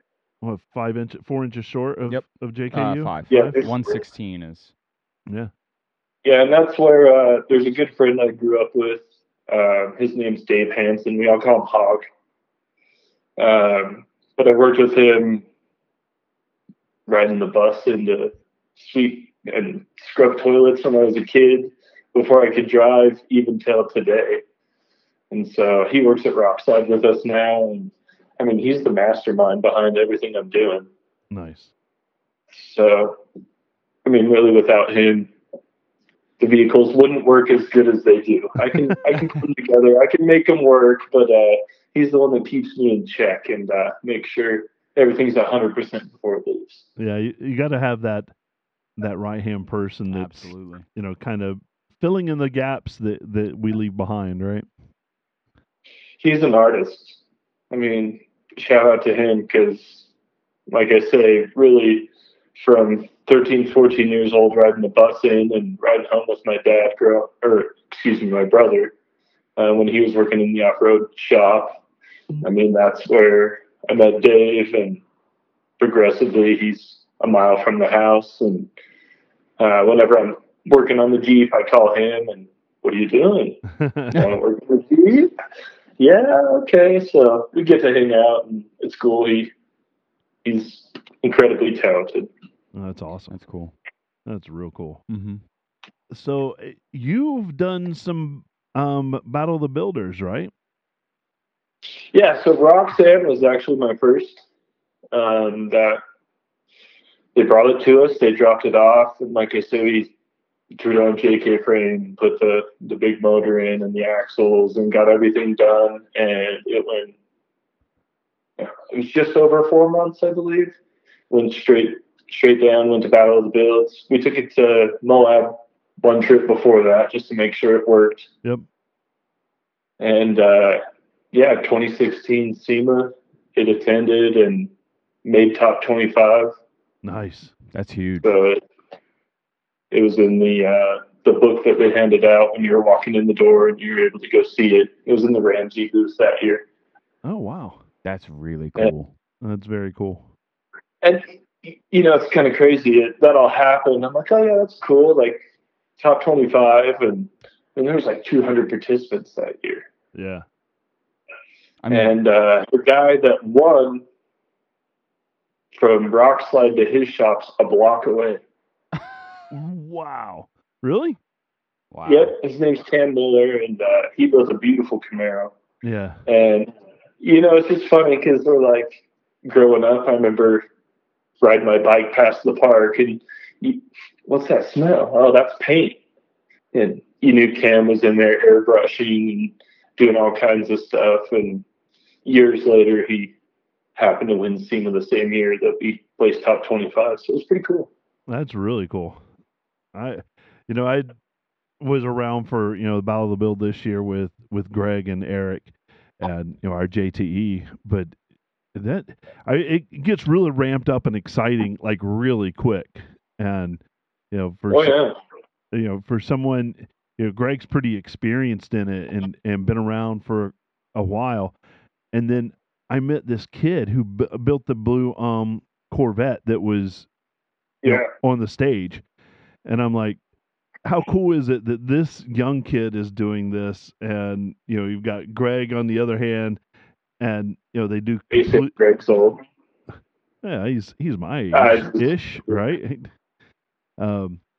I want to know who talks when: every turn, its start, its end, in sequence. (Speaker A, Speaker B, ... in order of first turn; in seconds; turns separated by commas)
Speaker A: 0.4-3.6, Speaker B: 2.1-4.7, Speaker C: 3.3-4.0, Speaker C: 6.2-12.1, Speaker C: 13.4-15.4, Speaker C: 17.1-24.4, Speaker C: 25.3-30.9, Speaker A: 31.3-31.7, Speaker C: 32.5-33.2, Speaker C: 34.0-35.3, Speaker C: 36.4-46.9, Speaker A: 47.0-48.3, Speaker A: 49.0-54.7, Speaker B: 50.1-50.9, Speaker C: 56.2-57.2, Speaker C: 57.7-60.1, Speaker C: 60.7-68.9, Speaker C: 69.6-71.8, Speaker C: 72.4-75.0, Speaker C: 75.8-78.7, Speaker C: 79.6-85.3, Speaker A: 83.8-84.2, Speaker C: 86.0-89.5, Speaker C: 90.5-92.3, Speaker A: 92.7-93.3, Speaker B: 93.3-93.7, Speaker A: 94.3-95.0, Speaker B: 95.1-95.4, Speaker A: 96.1-100.5, Speaker C: 102.1-104.4, Speaker C: 105.1-106.0, Speaker C: 107.3-110.1, Speaker C: 110.8-117.2, Speaker C: 118.6-120.8, Speaker C: 121.3-128.3, Speaker C: 130.0-130.8, Speaker C: 131.3-134.7, Speaker C: 135.2-136.6, Speaker A: 137.0-137.5, Speaker B: 137.7-138.3, Speaker C: 138.2-138.6, Speaker C: 139.9-146.6, Speaker A: 147.2-147.8, Speaker B: 148.0-149.1, Speaker A: 149.4-150.2, Speaker C: 151.0-155.4, Speaker C: 156.0-159.9, Speaker A: 160.1-160.4, Speaker B: 161.8-162.1, Speaker C: 161.9-164.1, Speaker C: 165.7-168.4, Speaker A: 169.5-171.2, Speaker B: 171.9-172.3, Speaker C: 172.1-175.5, Speaker A: 175.8-176.2, Speaker C: 176.3-180.7, Speaker C: 181.4-186.0, Speaker C: 186.7-191.6, Speaker C: 192.2-193.3, Speaker C: 194.0-197.9, Speaker A: 198.3-199.2, Speaker A: 199.9-201.1, Speaker A: 201.8-208.2, Speaker A: 208.8-215.0, Speaker C: 214.7-215.2, Speaker A: 215.7-221.6, Speaker A: 222.1-227.1, Speaker C: 227.8-228.1, Speaker A: 227.8-229.0, Speaker A: 229.7-230.2, Speaker A: 230.8-236.6, Speaker A: 237.2-238.7, Speaker C: 238.3-239.4, Speaker A: 240.4-243.1, Speaker C: 241.5-242.1, Speaker A: 244.0-244.4